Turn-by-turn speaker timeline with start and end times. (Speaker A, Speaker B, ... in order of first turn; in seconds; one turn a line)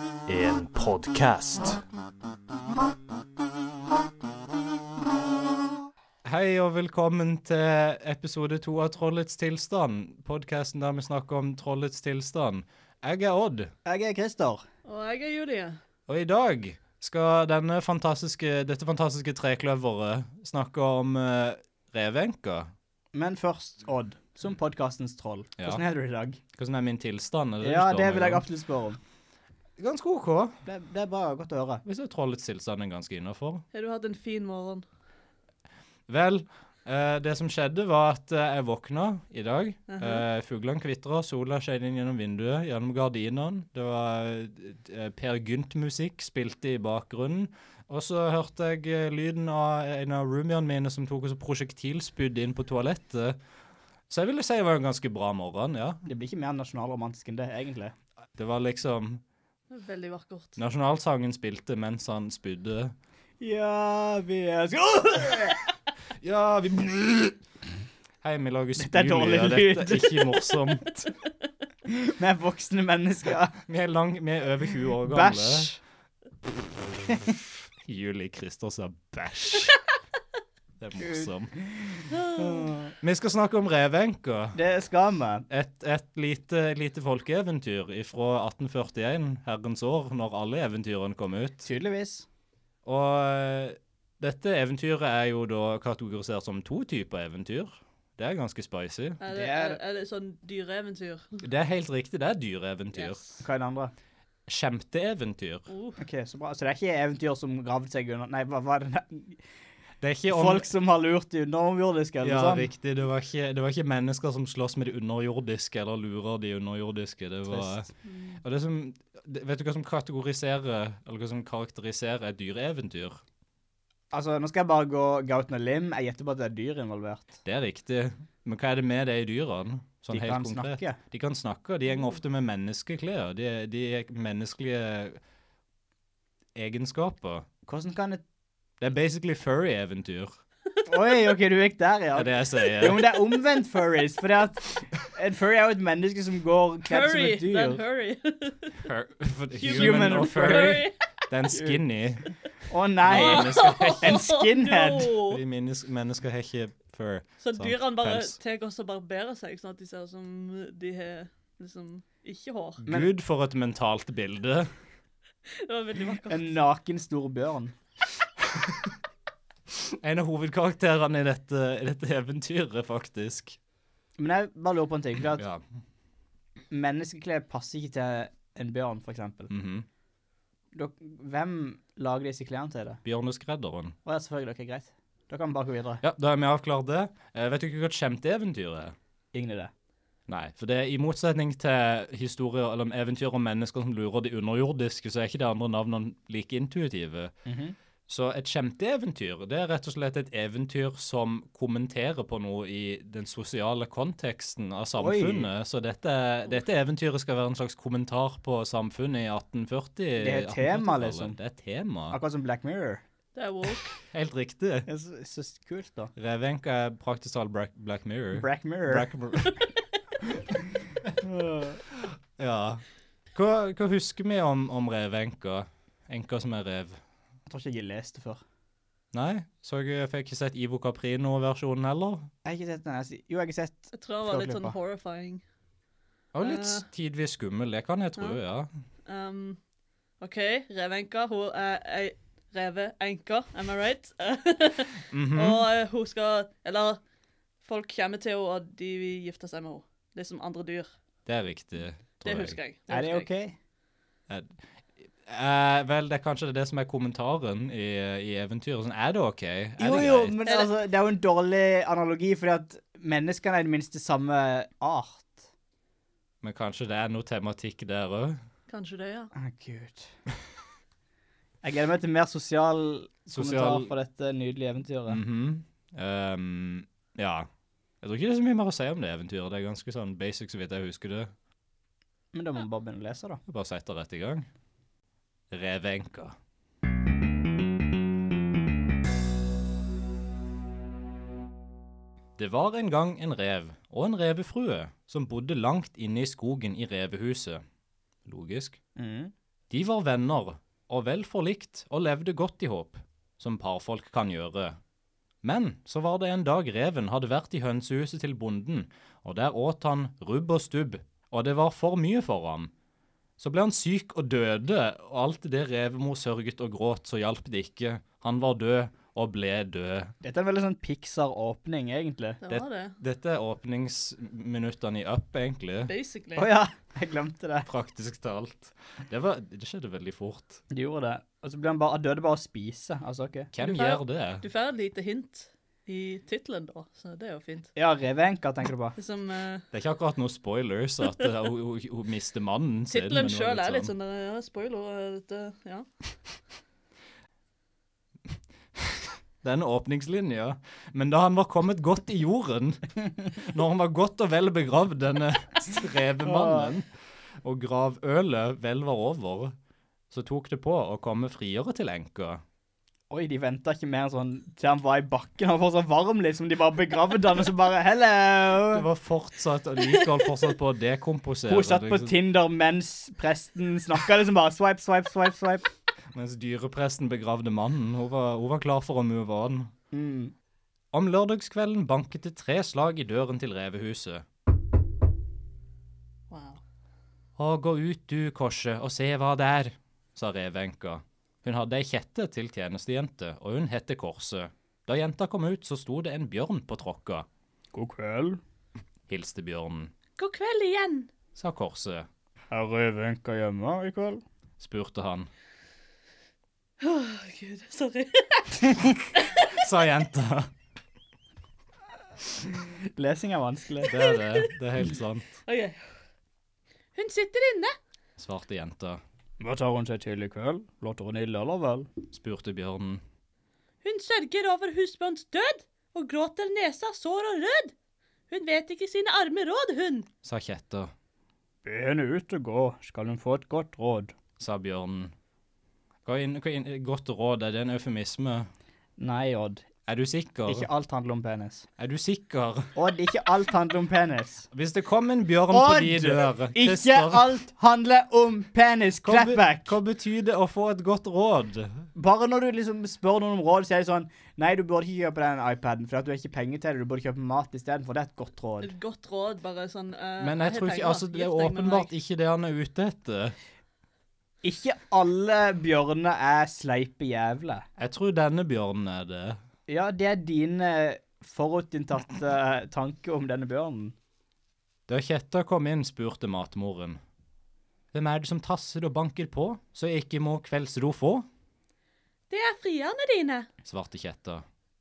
Speaker A: 0.3-1.8
Speaker A: 6.2-13.7
Speaker B: 13.8-14.6
Speaker C: 14.8-15.8
Speaker A: 16.1-22.7
Speaker B: 23.1-26.4
Speaker A: 26.5-28.4
Speaker B: 27.6-29.0
Speaker A: 29.8-30.6
Speaker B: 30.6-31.8
Speaker A: 31.8-33.6
Speaker C: 33.7-34.8
Speaker A: 36.1-53.4
Speaker C: 39.9-40.2
Speaker A: 54.1-56.0
Speaker B: 56.0-57.9
Speaker A: 58.4-59.2
Speaker C: 59.7-60.6
Speaker A: 60.6-62.9
Speaker B: 63.4-65.6
Speaker A: 66.2-67.4
Speaker A: 68.2-71.1
Speaker B: 68.8-70.2
Speaker B: 71.9-73.6
Speaker A: 73.7-75.7
Speaker B: 75.0-75.8
Speaker A: 76.9-79.8
Speaker A: 80.8-81.5
Speaker B: 81.0-82.9
Speaker C: 82.1-82.7
Speaker A: 83.0-84.6
Speaker B: 84.5-85.5
Speaker A: 85.5-91.7
Speaker B: 91.6-92.2
Speaker A: 92.8-99.2
Speaker C: 99.2-101.4
Speaker B: 99.3-99.8
Speaker A: 101.4-103.2
Speaker C: 103.0-103.4
Speaker B: 103.4-103.9
Speaker A: 104.5-105.7
Speaker C: 105.7-106.0
Speaker B: 106.0-109.4
Speaker A: 110.0-110.7
Speaker B: 110.3-112.7
Speaker A: 112.2-117.9
Speaker B: 117.5-117.8
Speaker C: 118.1-118.3
Speaker A: 118.4-123.2
Speaker B: 124.1-127.3
Speaker A: 127.4-135.2
Speaker B: 130.1-131.0
Speaker A: 136.5-137.4
Speaker B: 137.7-138.2
Speaker A: 138.8-140.3
Speaker C: 140.8-141.2
Speaker B: 140.8-147.8
Speaker A: 142.1-143.0
Speaker C: 146.9-148.8
Speaker A: 148.8-152.3
Speaker C: 149.6-150.9
Speaker B: 149.7-150.8
Speaker B: 151.5-151.8
Speaker B: 152.7-155.1
Speaker A: 153.0-154.2
Speaker C: 153.1-155.4
Speaker A: 155.2-158.4
Speaker C: 157.4-162.8
Speaker A: 162.8-164.7
Speaker C: 165.6-166.6
Speaker B: 166.3-167.7
Speaker A: 169.7-173.6
Speaker B: 174.2-175.4
Speaker A: 175.3-175.6
Speaker B: 176.7-179.5
Speaker A: 179.5-179.9
Speaker B: 180.7-183.0
Speaker A: 183.0-183.9
Speaker B: 184.0-186.0
Speaker A: 186.0-188.9
Speaker B: 189.3-189.7
Speaker A: 190.3-197.3
Speaker B: 197.4-197.7
Speaker A: 198.1-212.2
Speaker B: 205.0-205.5
Speaker B: 210.2-211.4
Speaker B: 212.1-213.0
Speaker C: 213.3-214.0
Speaker A: 214.0-214.9
Speaker B: 214.9-216.1
Speaker A: 216.2-219.6
Speaker B: 218.3-219.1
Speaker B: 221.2-221.8
Speaker A: 221.9-227.0
Speaker B: 227.5-228.4
Speaker A: 229.1-232.3
Speaker B: 232.4-234.8
Speaker C: 233.9-235.4
Speaker A: 236.3-238.7
Speaker C: 236.4-236.8
Speaker C: 239.1-239.6
Speaker C: 240.2-247.0
Speaker A: 245.1-245.7
Speaker C: 247.6-250.9
Speaker A: 251.2-252.6
Speaker C: 252.2-253.3
Speaker B: 252.9-253.6
Speaker A: 254.3-260.4
Speaker B: 259.8-265.4
Speaker A: 266.4-268.4
Speaker C: 268.7-269.3
Speaker B: 269.3-270.1
Speaker B: 271.6-275.2
Speaker A: 273.3-273.9
Speaker A: 275.1-277.5
Speaker A: 278.0-281.3
Speaker B: 282.3-283.4
Speaker A: 283.5-284.5
Speaker A: 285.5-286.4
Speaker A: 292.4-297.6
Speaker A: 298.2-298.8
Speaker B: 298.9-299.3
Speaker A: 299.7-304.8
Speaker A: 305.4-312.7
Speaker A: 313.4-320.1
Speaker B: 320.2-322.4
Speaker C: 322.4-322.9
Speaker A: 322.5-325.9
Speaker C: 325.9-326.5
Speaker B: 326.4-327.7
Speaker A: 327.6-330.6
Speaker B: 330.7-333.5
Speaker A: 333.5-334.4
Speaker C: 333.6-337.7
Speaker B: 337.8-338.9
Speaker C: 338.9-339.6
Speaker A: 339.7-343.9
Speaker C: 342.9-345.9
Speaker A: 348.7-356.9
Speaker B: 356.2-356.7
Speaker A: 357.4-359.5
Speaker A: 360.1-362.4
Speaker B: 363.1-368.9
Speaker A: 368.7-372.1
Speaker C: 369.8-370.5
Speaker B: 371.5-375.6
Speaker A: 376.1-379.7
Speaker B: 379.9-380.3
Speaker A: 380.9-384.2
Speaker C: 386.3-386.6
Speaker A: 387.4-397.3
Speaker B: 397.7-398.4
Speaker A: 399.1-399.9
Speaker C: 400.2-401.1
Speaker A: 401.3-402.1
Speaker B: 402.5-404.2
Speaker A: 404.6-405.3
Speaker C: 406.8-409.6
Speaker A: 409.4-410.5
Speaker B: 412.4-413.9
Speaker A: 413.8-415.4
Speaker C: 413.9-414.5
Speaker C: 415.4-415.9
Speaker C: 416.9-417.7
Speaker A: 418.2-419.0
Speaker B: 419.4-421.9
Speaker A: 422.1-423.0
Speaker C: 423.8-427.7
Speaker C: 428.3-430.1
Speaker A: 430.2-430.9
Speaker B: 431.6-434.1
Speaker A: 434.4-435.1
Speaker A: 436.0-438.5
Speaker B: 439.0-439.6
Speaker A: 439.9-440.7
Speaker B: 440.5-441.7
Speaker A: 441.8-442.7
Speaker B: 442.7-444.5
Speaker A: 444.5-447.3
Speaker B: 445.5-449.8
Speaker A: 449.0-451.9
Speaker B: 451.9-458.7
Speaker C: 458.6-461.9
Speaker A: 460.2-463.3
Speaker B: 464.4-467.6
Speaker A: 467.8-469.4
Speaker B: 469.7-473.9
Speaker A: 474.9-477.0
Speaker A: 477.9-481.2
Speaker C: 482.3-483.5
Speaker A: 483.6-484.4